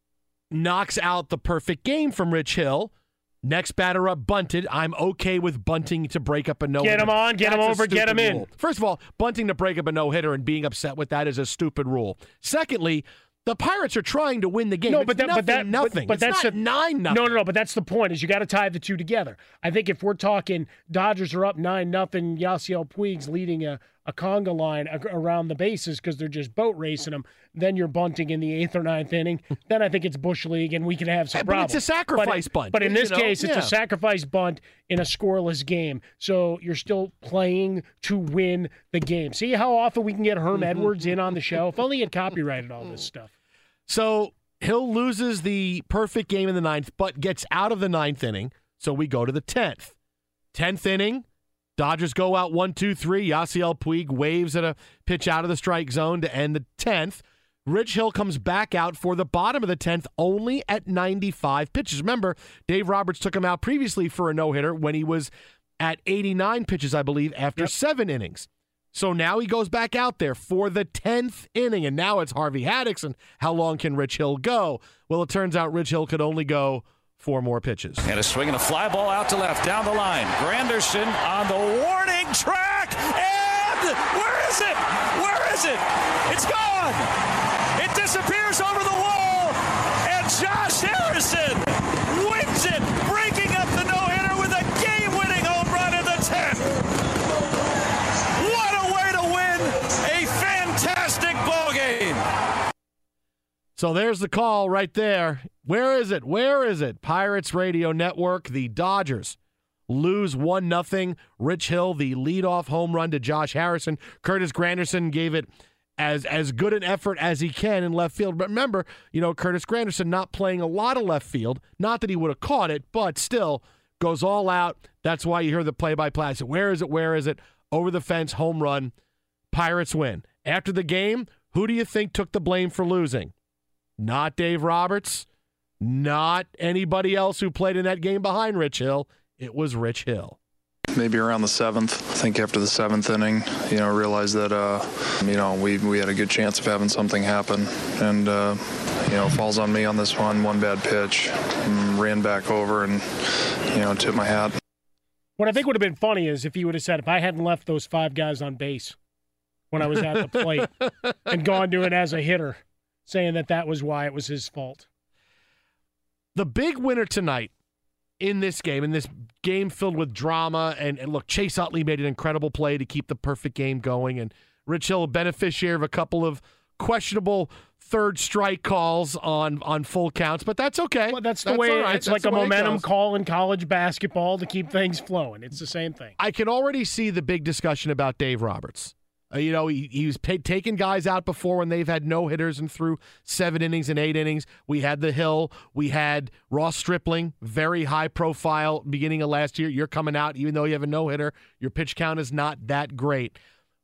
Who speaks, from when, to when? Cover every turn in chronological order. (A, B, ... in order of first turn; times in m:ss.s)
0:00.5-0:17.4 A
0:06.8-0:08.5 B
0:14.9-0:16.6 B
0:17.1-0:43.3 B
0:31.3-0:33.7 A
0:43.9-0:50.0 A
0:50.5-0:51.2 A
0:51.8-1:18.0 A
1:18.0-1:27.1 C
1:27.8-1:36.7 C
1:38.4-1:42.2 C
1:43.8-1:49.4 A
1:49.9-1:55.5 A
1:56.0-2:08.9 A
2:09.5-2:13.3 A
2:14.0-2:15.3 A
2:15.8-2:20.4 A
2:21.0-2:34.6 D
2:35.4-2:39.0 B
2:39.7-2:40.7 B
2:41.3-2:44.9 B
2:46.4-2:47.5 A
2:48.2-3:02.8 A
3:01.1-3:06.2 B
3:06.2-3:23.4 A